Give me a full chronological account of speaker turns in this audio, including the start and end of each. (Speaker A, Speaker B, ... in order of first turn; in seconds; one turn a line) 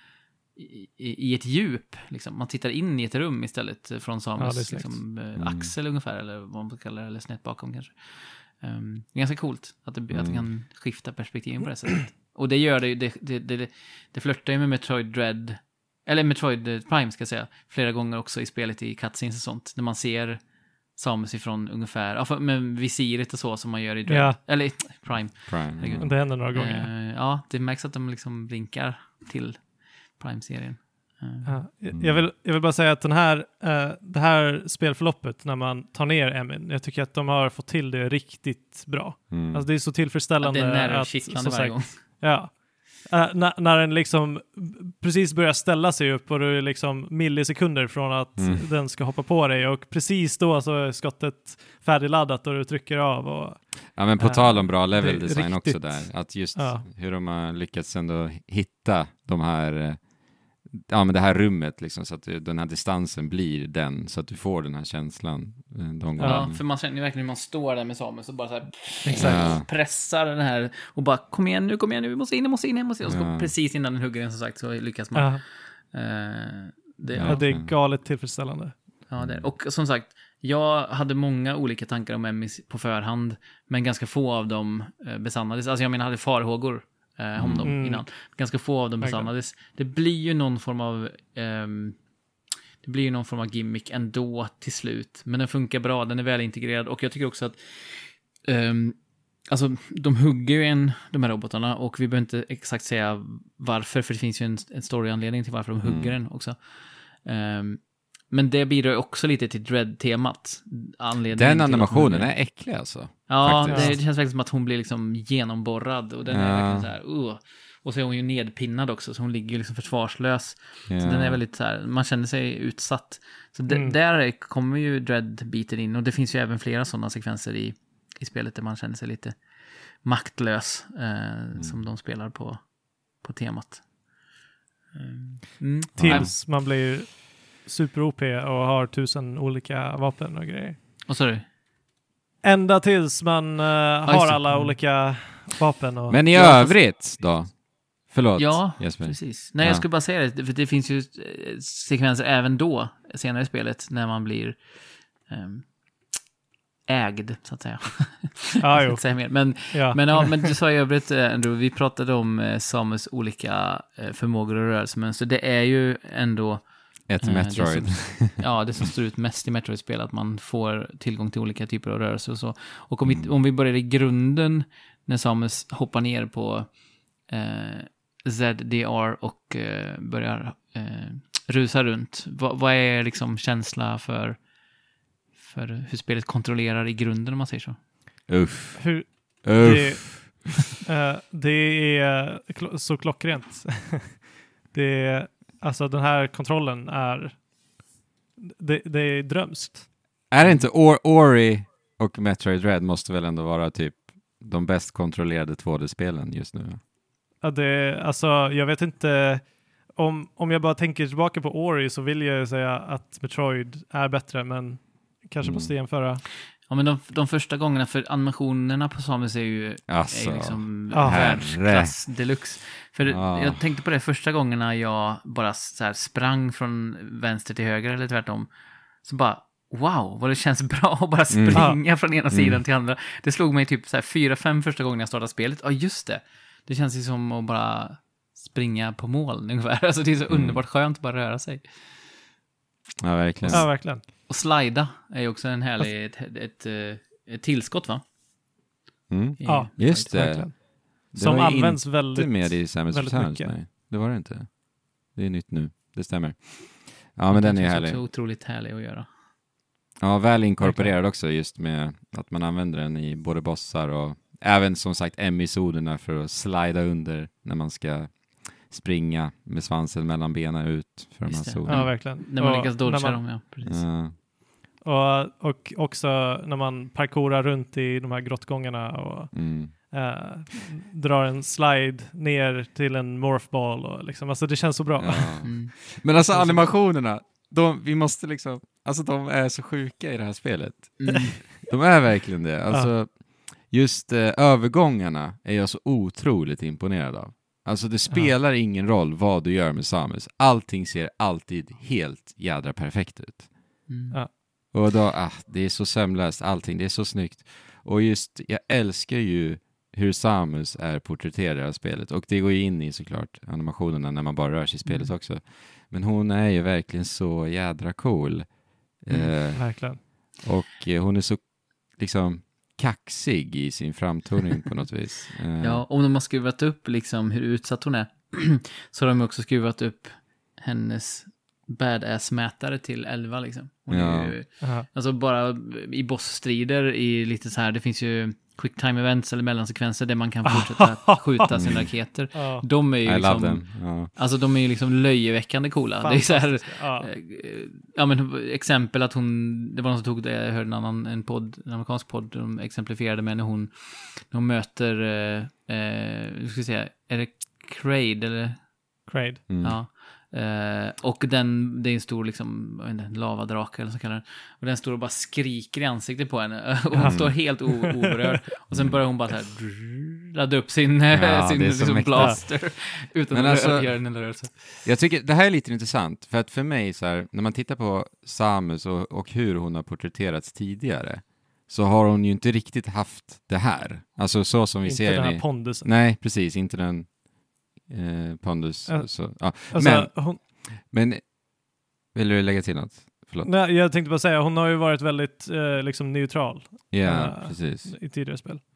Speaker A: 0.6-31.6
Speaker B: 4.4-5.0
Speaker C: 5.4-5.7
Speaker C: 10.1-10.5
Speaker B: 24.1-24.6
Speaker C: 25.2-26.3
Speaker B: 26.0-26.9
Speaker B: 31.4-56.9
Speaker C: 31.9-32.3
Speaker C: 39.3-39.7
Speaker A: 40.4-42.0
Speaker C: 48.4-48.7
Speaker C: 53.9-66.6
Speaker B: 66.2-66.5
Speaker A: 66.2-77.5
Speaker B: 69.0-69.5
Speaker C: 69.2-69.7
Speaker C: 73.0-73.5
Speaker B: 75.1-75.4
Speaker C: 77.1-77.7
Speaker B: 77.2-78.8
Speaker A: 79.1-92.0
Speaker C: 79.2-79.5
Speaker C: 87.4-87.7
Speaker B: 87.6-88.1
Speaker B: 89.0-89.3
Speaker A: 92.8-133.8
Speaker C: 105.8-106.2
Speaker C: 111.3-114.0
Speaker B: 113.7-114.0
Speaker C: 116.3-116.9
Speaker C: 120.9-121.4
Speaker B: 123.7-124.0
Speaker A: 134.9-136.3
Speaker C: 136.0-136.3
Speaker B: 136.0-140.8
Speaker A: 141.1-141.5
Speaker B: 142.4-146.8
Speaker A: 144.1-144.8
Speaker C: 146.1-149.8
Speaker A: 148.4-155.8
Speaker A: 156.9-184.4
Speaker B: 158.6-160.5
Speaker C: 167.1-168.6
Speaker C: 173.0-173.3
Speaker A: 185.4-187.8
Speaker C: 188.3-190.5
Speaker B: 188.8-197.5
Speaker B: 198.4-199.9
Speaker C: 200.3-206.8
Speaker B: 207.4-216.2
Speaker C: 215.4-215.7
Speaker A: 216.6-228.5
Speaker C: 219.9-222.1
Speaker B: 220.9-221.4
Speaker C: 223.1-223.7
Speaker A: 229.0-241.7
Speaker C: 231.3-232.6
Speaker B: 231.5-231.8
Speaker C: 240.3-240.6
Speaker C: 243.0-243.9
Speaker A: 243.4-248.0
Speaker B: 243.5-244.0
Speaker C: 249.1-258.0
Speaker A: 249.4-250.1
Speaker B: 249.4-253.6
Speaker A: 257.3-259.1
Speaker C: 260.0-272.0
Speaker B: 260.6-260.9
Speaker A: 271.3-273.9
Speaker B: 271.7-273.3
Speaker C: 273.6-274.1
Speaker B: 274.8-286.7
Speaker C: 279.3-279.7
Speaker C: 285.0-303.5
Speaker A: 285.4-285.7
Speaker A: 291.0-291.4
Speaker A: 303.9-304.2
Speaker C: 304.7-325.8
Speaker A: 314.9-315.1
Speaker A: 319.1-319.5
Speaker B: 319.6-320.0
Speaker A: 325.6-358.7
Speaker C: 333.9-334.4
Speaker B: 334.6-334.9
Speaker B: 340.4-341.5
Speaker C: 341.5-341.9
Speaker B: 342.3-342.7
Speaker C: 343.0-344.1
Speaker B: 346.0-347.1
Speaker B: 359.1-359.4
Speaker C: 359.5-359.8
Speaker A: 359.6-374.9
Speaker B: 366.9-368.4
Speaker C: 367.0-367.4
Speaker C: 368.7-369.0
Speaker C: 371.1-387.2
Speaker B: 384.8-385.9
Speaker C: 387.8-391.4
Speaker B: 388.9-390.4
Speaker C: 392.1-393.5
Speaker B: 393.4-398.6
Speaker C: 396.9-397.9